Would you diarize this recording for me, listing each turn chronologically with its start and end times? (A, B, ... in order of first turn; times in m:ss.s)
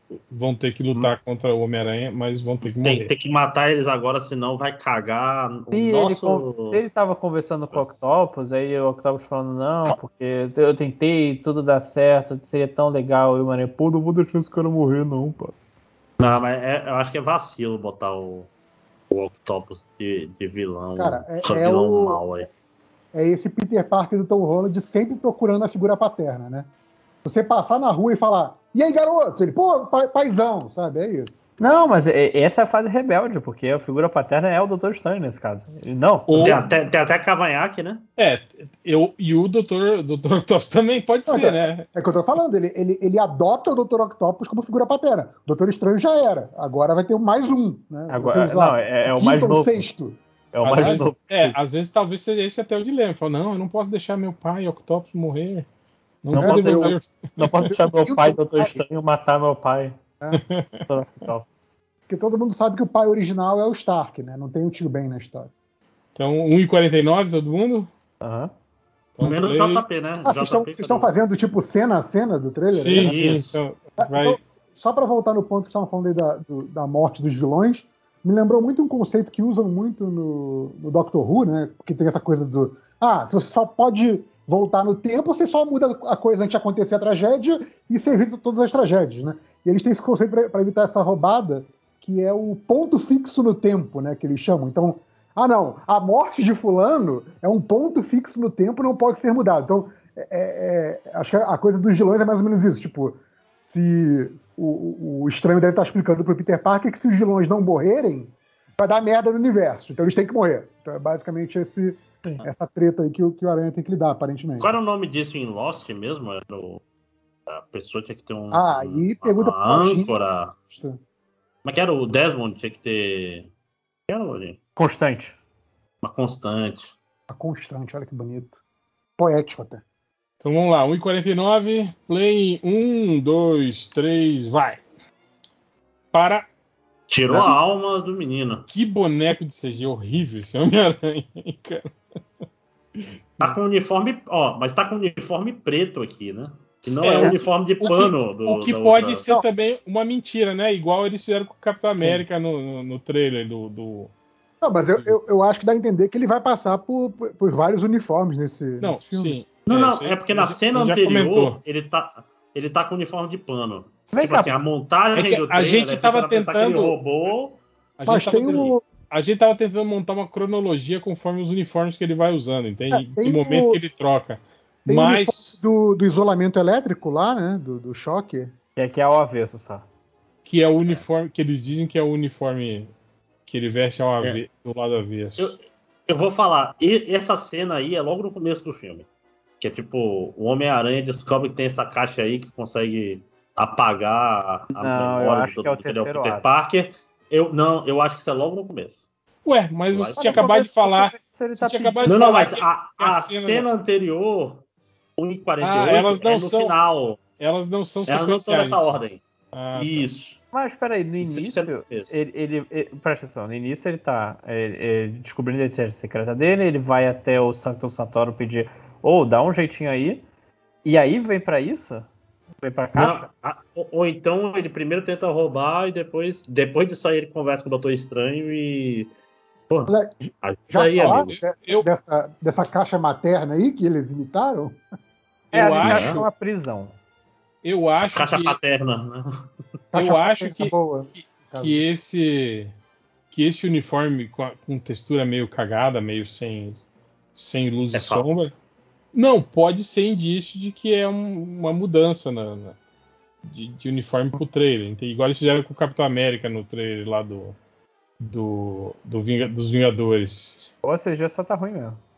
0:00.3-0:03.1 A
0:02.7-0:06.8 B
0:05.7-0:15.5 C
0:16.2-0:18.5 B
0:19.1-0:22.5 B
0:21.0-0:22.5 D
0:23.1-0:26.7 D
0:27.2-0:31.4 D
0:31.6-0:36.5 C
0:36.3-0:36.6 A
0:36.4-0:38.0 B
0:38.2-0:41.9 A
0:41.3-0:50.2 D
0:48.1-0:49.8 C
0:50.5-0:51.6 C
0:50.6-0:55.7 A
0:56.2-0:57.9 A
0:56.3-0:57.0 D
0:56.3-1:00.0 C
0:58.0-0:58.8 D
1:00.3-1:00.8 A
1:00.9-1:01.5 C
1:02.1-1:05.5 D
1:06.1-1:07.9 A
1:08.2-1:08.5 C
1:09.2-1:09.8 A
1:09.2-1:11.1 B
1:10.2-1:13.2 D
1:12.7-1:14.4 A
1:13.0-1:13.6 B
1:14.0-1:54.7 D
1:54.6-1:56.8 B
1:57.5-2:00.5 B
1:58.5-2:01.0 D
2:01.6-2:03.5 B
2:04.1-2:04.6 B
2:04.8-2:05.4 C
2:06.0-2:06.9 B
2:07.3-2:08.6 D
2:09.2-2:09.8 D
2:10.4-2:14.8 A
2:16.1-2:16.5 A
2:17.1-2:18.7 B
2:18.7-2:21.9 A
2:23.0-2:23.5 A
2:23.4-2:29.2 B
2:27.0-2:34.1 A
2:34.6-2:39.4 D
2:38.8-2:41.6 A
2:39.7-2:47.6 B
2:44.1-2:44.6 C
2:45.2-2:46.9 A
2:48.0-2:55.6 A
2:48.0-2:48.8 D
2:52.9-2:53.8 D
2:54.9-2:58.5 D
2:58.8-2:59.8 C
3:00.4-3:02.9 A
3:03.5-3:05.5 A
3:05.4-3:09.1 B
3:09.6-3:19.0 B
3:14.7-3:16.4 C
3:19.4-3:23.7 A
3:19.9-3:20.5 B
3:20.2-3:22.2 C
3:22.0-3:24.6 B
3:25.2-3:27.2 B
3:25.6-3:26.7 A
3:27.4-3:28.8 A
3:28.1-3:29.2 B
3:29.5-3:30.1 A
3:29.7-3:30.4 B
3:30.5-3:40.2 C
3:31.2-3:32.1 B
3:40.8-3:42.0 C
3:42.6-3:43.3 C
3:42.9-3:49.1 B
3:49.7-3:51.3 B
3:49.9-3:54.8 D
3:51.0-3:51.9 A
3:55.5-3:56.2 A
3:55.5-3:56.9 C
3:55.8-3:56.2 B
3:57.6-3:58.6 A
3:58.1-3:59.4 B
3:59.9-4:01.8 D
3:59.9-4:02.7 A
4:03.3-4:06.8 A
4:07.4-4:08.5 A
4:07.9-4:08.2 B
4:09.1-4:12.8 A
4:13.4-4:17.6 A
4:18.2-4:20.7 A
4:20.8-4:22.0 C